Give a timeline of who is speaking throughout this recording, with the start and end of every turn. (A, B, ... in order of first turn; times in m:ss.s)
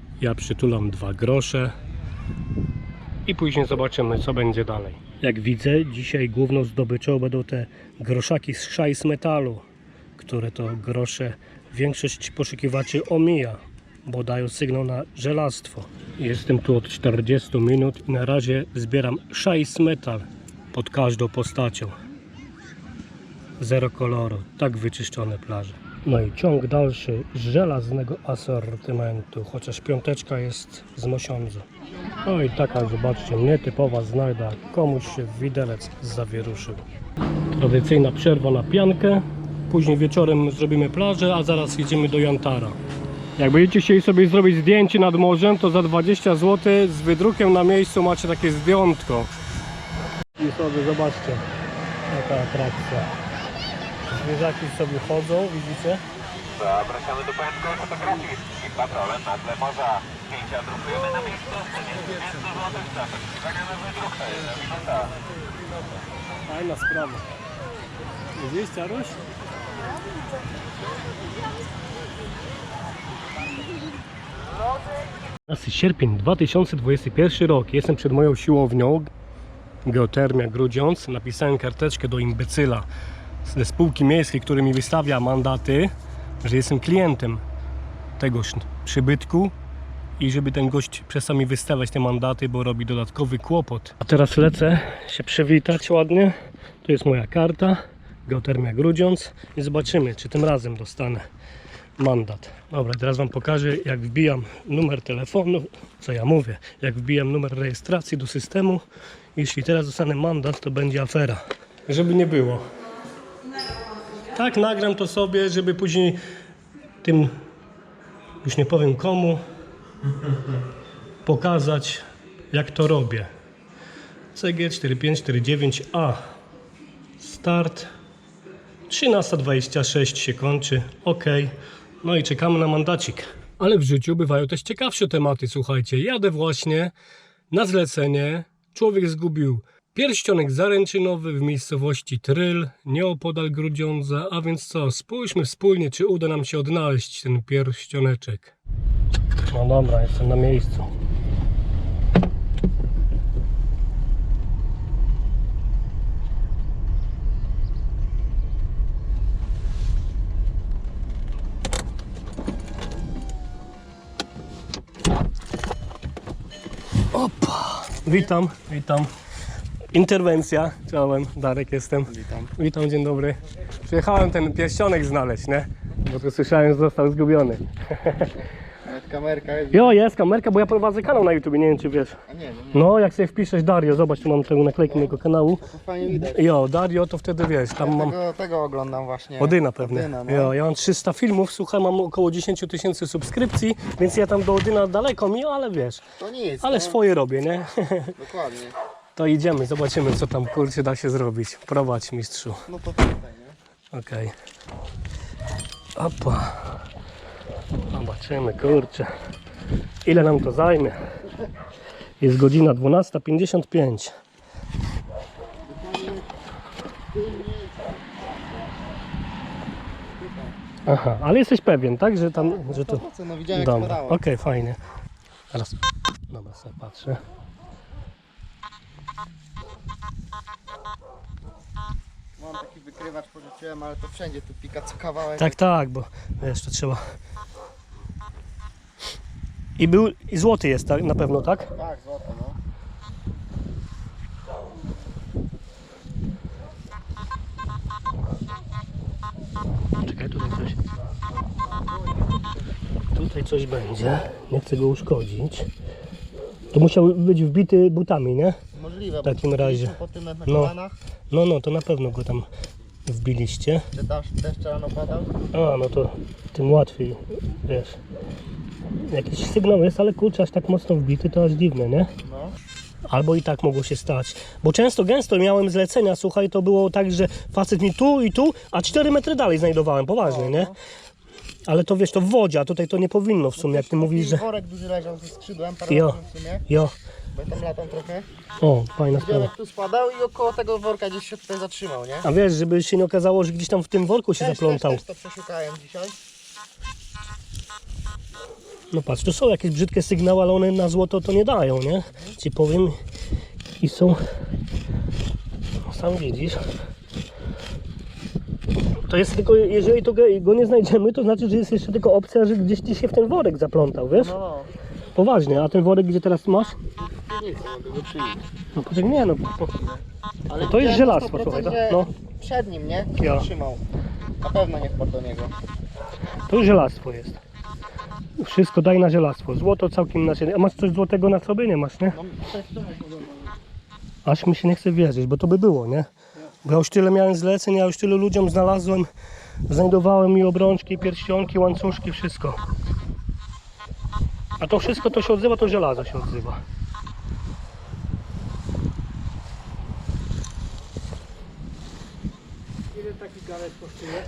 0:00.2-0:01.7 A
0:03.3-0:09.6 A
0:10.2-0:22.0 A
0:23.6-0:31.6 A
0:32.2-0:36.8 A
0:37.5-0:42.8 A
0:43.4-0:49.3 A
0:50.4-0:51.4 A
0:52.1-0:53.1 A
0:54.1-0:56.0 A
0:56.6-1:03.0 B
1:03.8-1:05.1 B
1:06.5-1:07.2 A
1:08.4-1:09.2 A
1:15.5-1:19.1 A
1:19.8-1:22.9 A
1:23.4-1:27.4 A
1:28.2-1:29.5 A
1:30.2-1:41.2 A
1:42.0-1:48.8 A
1:49.4-1:52.6 A
1:54.3-1:56.2 A
1:57.0-1:57.4 A
1:58.4-1:59.4 A
2:01.3-2:03.3 A
2:04.4-2:06.2 A
2:07.2-2:07.9 A
2:08.9-2:16.9 A
2:17.5-2:28.5 A
2:29.5-2:30.9 A
2:47.1-2:49.1 A
2:47.9-2:48.3 C
2:49.9-2:58.3 A
2:52.1-2:52.5 C
2:58.9-3:00.0 C
2:59.7-3:02.2 A
3:02.3-3:02.9 C
3:02.7-3:05.7 A
3:05.7-3:06.5 C
3:06.2-3:08.2 A
3:07.8-3:10.5 C
3:09.4-3:16.0 A
3:16.2-3:17.0 C
3:16.6-3:18.2 A
3:18.2-3:18.8 C
3:19.2-3:22.7 A
3:22.7-3:23.6 C
3:23.9-3:24.4 A
3:26.0-3:26.8 A
3:27.9-3:29.1 A
3:30.0-3:31.0 A
3:32.2-3:34.1 A
3:35.7-3:36.3 C
3:37.1-3:38.0 C
3:40.2-3:40.6 C
3:40.9-3:44.8 A
3:42.4-3:44.2 C
3:45.5-3:47.2 A
3:52.4-3:55.6 C
3:55.4-3:57.0 A
3:59.8-4:01.7 A
4:01.7-4:02.6 C
4:10.0-4:10.8 A
4:13.1-4:15.7 A
4:16.7-4:18.6 A
4:18.7-4:21.0 C
4:19.2-4:20.0 A
4:20.5-4:20.7 A
4:21.3-4:22.5 A
4:23.1-4:23.9 A
4:23.9-4:25.3 C
4:25.5-4:28.0 A
4:29.0-4:32.1 A
4:32.2-4:32.6 C
4:33.1-4:40.7 A
4:40.2-4:40.8 C
4:41.7-4:44.4 A
4:43.6-4:46.7 C
4:45.9-4:46.2 A
4:46.7-4:47.0 A
4:47.3-4:48.3 C
4:48.6-4:49.5 A
4:49.1-4:52.3 C
4:52.2-4:55.0 A
4:54.4-4:56.2 C
4:58.9-5:03.0 A
5:03.8-5:04.2 A
5:05.9-5:06.6 A
5:09.1-5:14.3 A
5:14.1-5:14.7 C
5:15.2-5:16.8 A
5:17.0-5:18.4 C
5:18.8-5:19.8 A
5:20.5-5:23.8 C
5:20.5-5:22.1 A
5:23.2-5:23.5 A
5:24.4-5:25.5 C
5:26.5-5:27.4 A
5:28.4-5:32.2 A
5:32.1-5:33.2 C
5:34.2-5:36.1 A
5:36.6-5:39.1 A
5:39.7-5:42.6 A
5:44.6-5:46.6 A